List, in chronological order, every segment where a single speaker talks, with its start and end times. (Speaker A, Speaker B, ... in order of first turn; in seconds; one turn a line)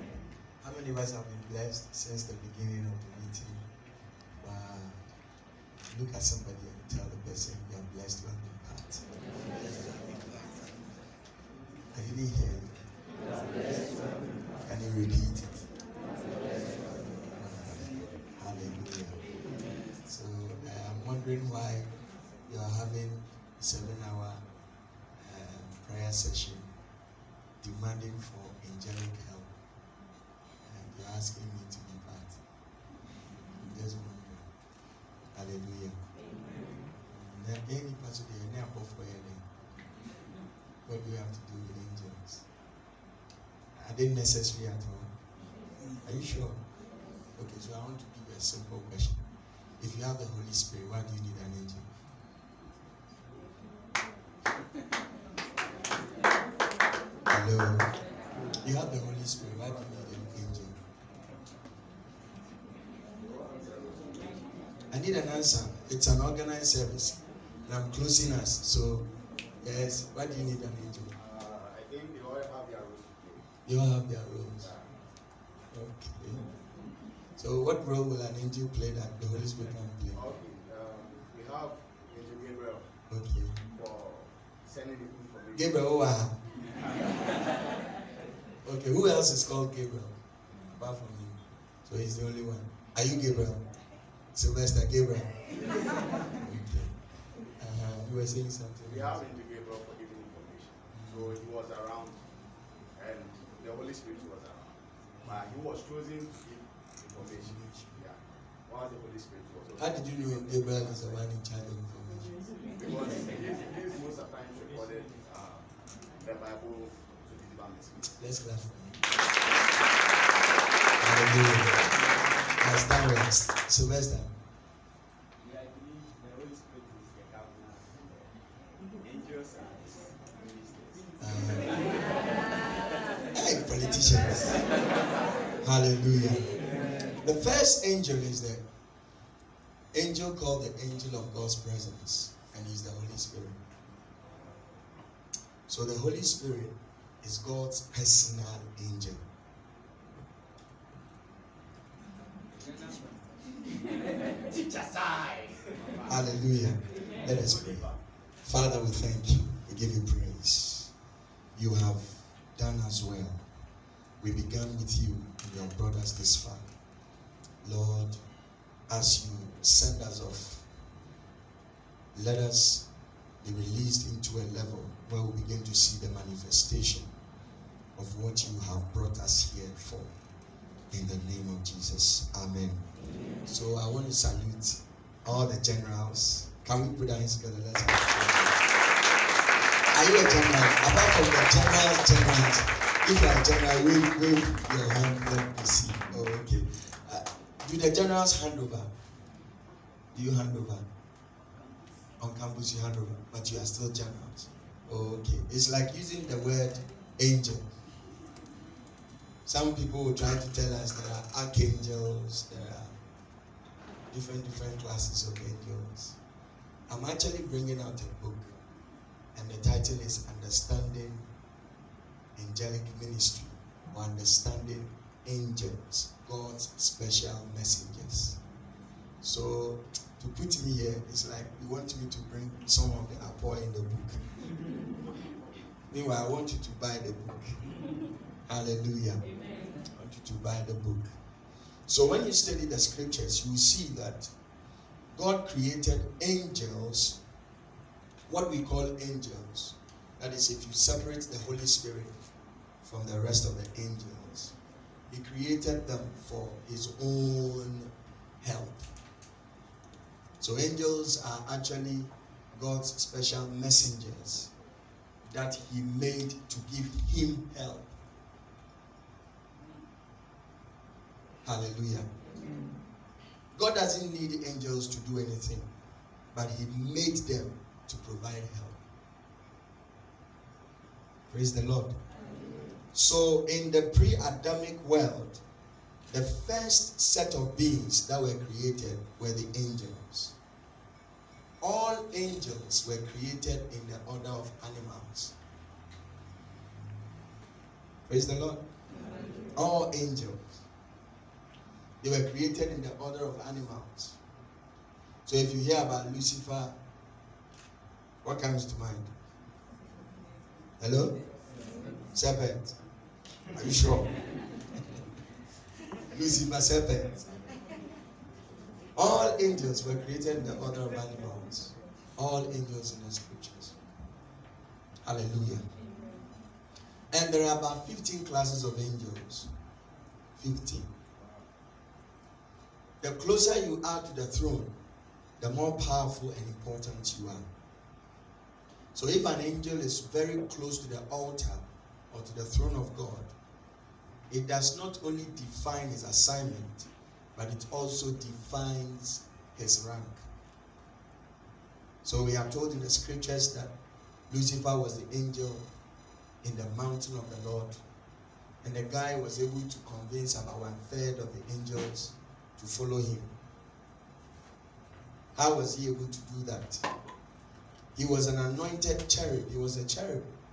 Speaker A: 0.6-3.6
Speaker A: 4.4-5.0
Speaker A: 5.9-9.0
Speaker A: 9.6-10.4
Speaker A: 11.9-12.9
Speaker A: 14.7-15.7
Speaker A: 17.3-19.2
Speaker A: 20.1-21.9
Speaker A: 22.5-24.4
Speaker A: 25.2-26.7
Speaker A: 27.6-29.5
Speaker A: 30.6-32.4
Speaker A: 33.6-34.5
Speaker A: 35.4-36.0
Speaker A: 37.1-39.4
Speaker A: 40.9-42.4
Speaker A: 43.8-45.1
Speaker A: 46.0-46.6
Speaker A: 47.4-49.2
Speaker A: 49.8-51.9
Speaker A: 57.3-57.9
Speaker A: 58.6-60.8
Speaker B: 63.3-64.3
Speaker A: 64.9-69.1
Speaker A: 69.6-71.1
Speaker B: 71.2-73.5
Speaker A: 73.7-74.7
Speaker B: 74.6-74.9
Speaker A: 75.7-76.5
Speaker A: 77.4-80.2
Speaker B: 80.1-82.9
Speaker A: 83.1-83.6
Speaker B: 83.7-85.9
Speaker A: 85.6-86.4
Speaker A: 88.6-90.2
Speaker A: 90.8-93.6
Speaker A: 94.3-95.3
Speaker A: 96.4-96.9
Speaker A: 97.6-99.3
Speaker B: 98.8-102.2
Speaker A: 100.9-101.3
Speaker B: 103.0-111.2
Speaker A: 107.2-107.9
Speaker A: 109.8-112.3
Speaker B: 112.8-115.7
Speaker B: 116.2-118.1
Speaker A: 118.0-119.0
Speaker A: 121.0-121.8
Speaker A: 122.6-124.3
Speaker C: 125.4-128.1
Speaker C: 129.0-131.2
Speaker A: 131.2-131.8
Speaker A: 133.3-134.6
Speaker A: 135.6-136.5
Speaker A: 137.2-138.6
Speaker A: 139.9-143.6
Speaker A: 145.7-149.2
Speaker C: 152.6-153.1
Speaker C: 154.7-155.4
Speaker A: 156.1-157.9
Speaker A: 158.4-160.9
Speaker A: 161.6-163.4
Speaker A: 164.2-166.7
Speaker A: 167.6-168.2
Speaker A: 168.9-170.7
Speaker A: 172.1-172.9
Speaker A: 173.4-177.1
Speaker A: 178.0-180.1
Speaker A: 180.9-182.8
Speaker A: 183.5-188.6
Speaker A: 189.9-198.9
Speaker A: 200.1-200.8
Speaker A: 202.2-207.7
Speaker A: 209.5-212.9
Speaker A: 214.1-216.2
Speaker A: 216.9-218.5
Speaker A: 219.3-221.3
Speaker A: 222.4-228.4
Speaker A: 229.2-234.2
Speaker A: 235.9-237.6
Speaker A: 238.5-239.2
Speaker A: 240.0-241.1
Speaker A: 241.9-244.3
Speaker A: 245.1-247.2
Speaker A: 248.3-252.1
Speaker A: 252.8-254.6
Speaker A: 255.1-257.9
Speaker A: 258.4-258.9
Speaker A: 260.4-264.5
Speaker A: 265.2-267.9
Speaker A: 271.4-272.1
Speaker A: 273.6-275.7
Speaker A: 276.3-278.8
Speaker A: 281.3-282.0
Speaker A: 282.9-285.4
Speaker A: 286.1-290.3
Speaker A: 291.6-295.3
Speaker A: 298.1-298.6
Speaker A: 299.6-300.6
Speaker A: 302.0-304.2
Speaker A: 305.3-306.7
Speaker A: 308.2-309.1
Speaker A: 310.8-311.1
Speaker A: 312.1-312.8
Speaker A: 313.6-314.1
Speaker A: 316.1-317.3
Speaker A: 319.0-323.8
Speaker A: 325.0-325.6
Speaker A: 327.1-329.5
Speaker A: 330.4-330.9
Speaker A: 333.0-334.7
Speaker A: 335.4-337.5
Speaker A: 338.9-343.3
Speaker A: 344.3-350.2
Speaker A: 352.0-353.7
Speaker A: 354.3-355.7
Speaker A: 356.4-357.8
Speaker A: 358.6-363.3
Speaker A: 365.4-366.8
Speaker A: 367.9-370.3